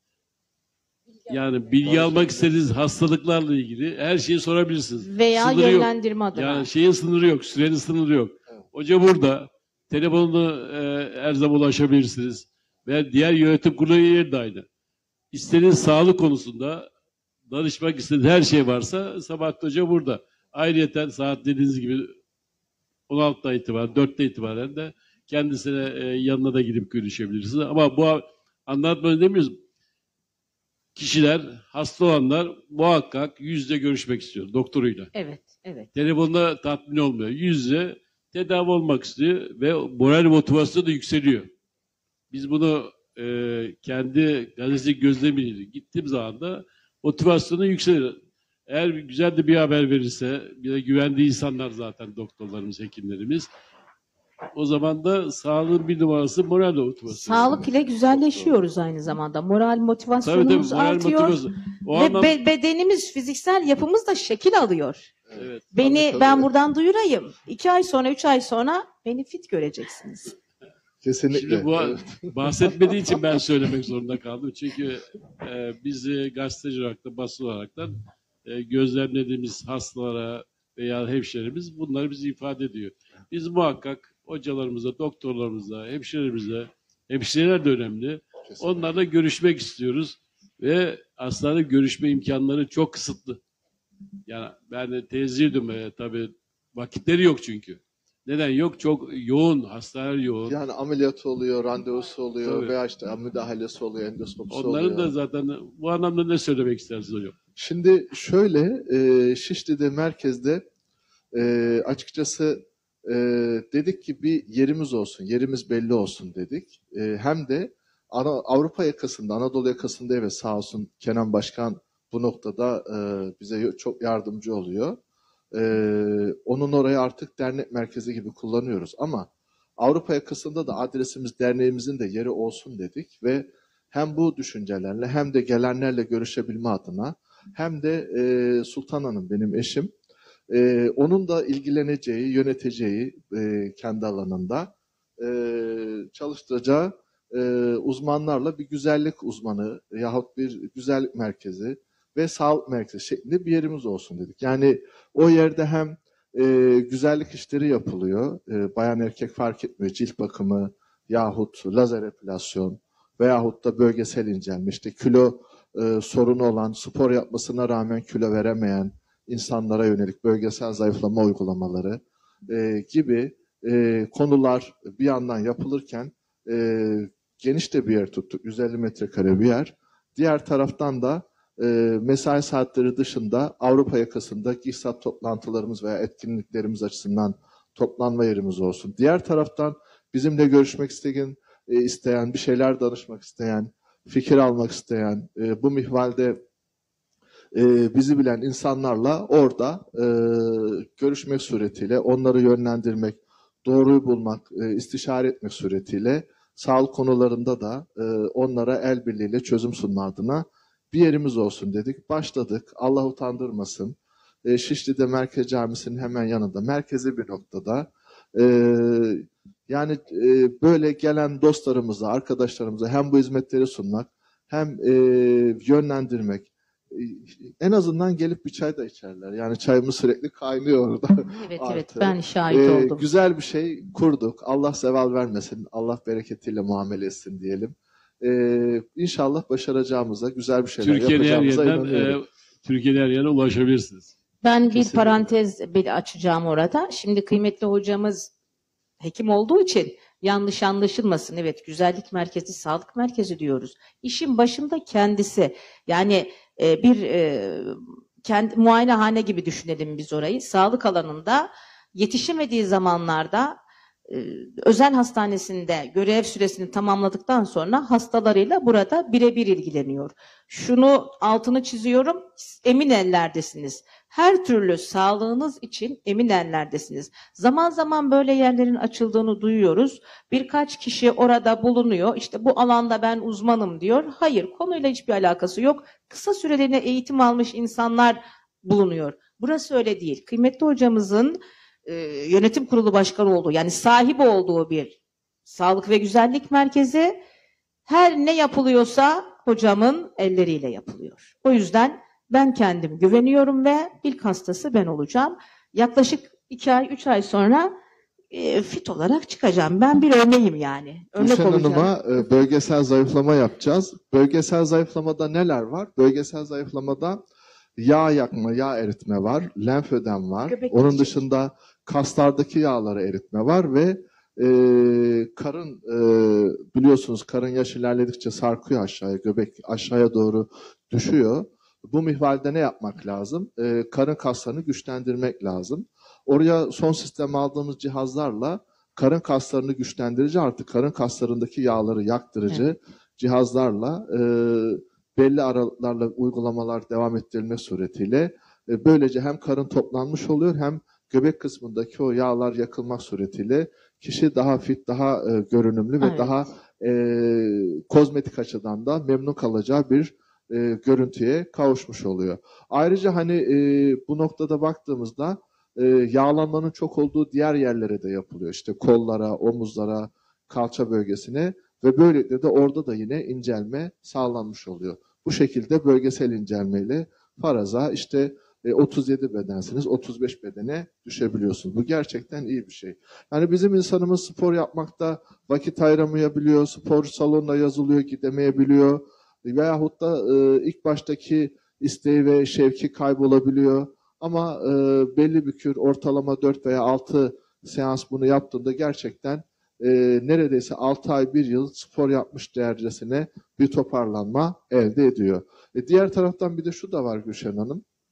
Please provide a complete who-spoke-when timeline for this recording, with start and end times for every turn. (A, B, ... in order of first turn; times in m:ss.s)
0:01.3-0:14.7 A
0:01.8-0:02.6 B
0:05.0-0:06.7 C
0:15.3-0:16.9 A
0:17.5-0:22.1 A
0:23.1-0:29.6 A
0:31.0-0:35.1 A
0:35.1-0:35.9 C
0:36.0-0:41.5 A
0:42.3-0:53.5 A
0:54.5-0:57.7 A
0:57.1-1:01.4 C
0:57.5-0:58.6 B
1:00.2-1:02.4 A
1:02.0-1:05.1 C
1:05.3-1:06.4 B
1:05.3-1:06.2 A
1:05.7-1:10.4 C
1:11.0-1:13.0 B
1:11.3-1:17.9 A
1:18.4-1:33.4 A
1:34.3-1:40.6 A
1:40.5-1:45.1 B
1:42.4-1:42.7 A
1:44.5-1:47.4 A
1:47.6-1:50.6 B
1:51.3-2:05.0 B
2:05.5-2:19.9 B
2:20.5-3:16.4 B
3:17.5-4:02.2 B
3:51.3-3:53.0 C
4:00.8-4:04.1 A
4:04.4-4:08.3 C
4:04.7-4:05.2 A
4:09.0-4:57.2 C
4:57.9-5:07.8 C
5:08.3-5:11.9 C
5:11.2-5:17.2 B
5:17.8-6:47.8 B
5:20.6-5:21.1 C
5:56.0-5:56.3 C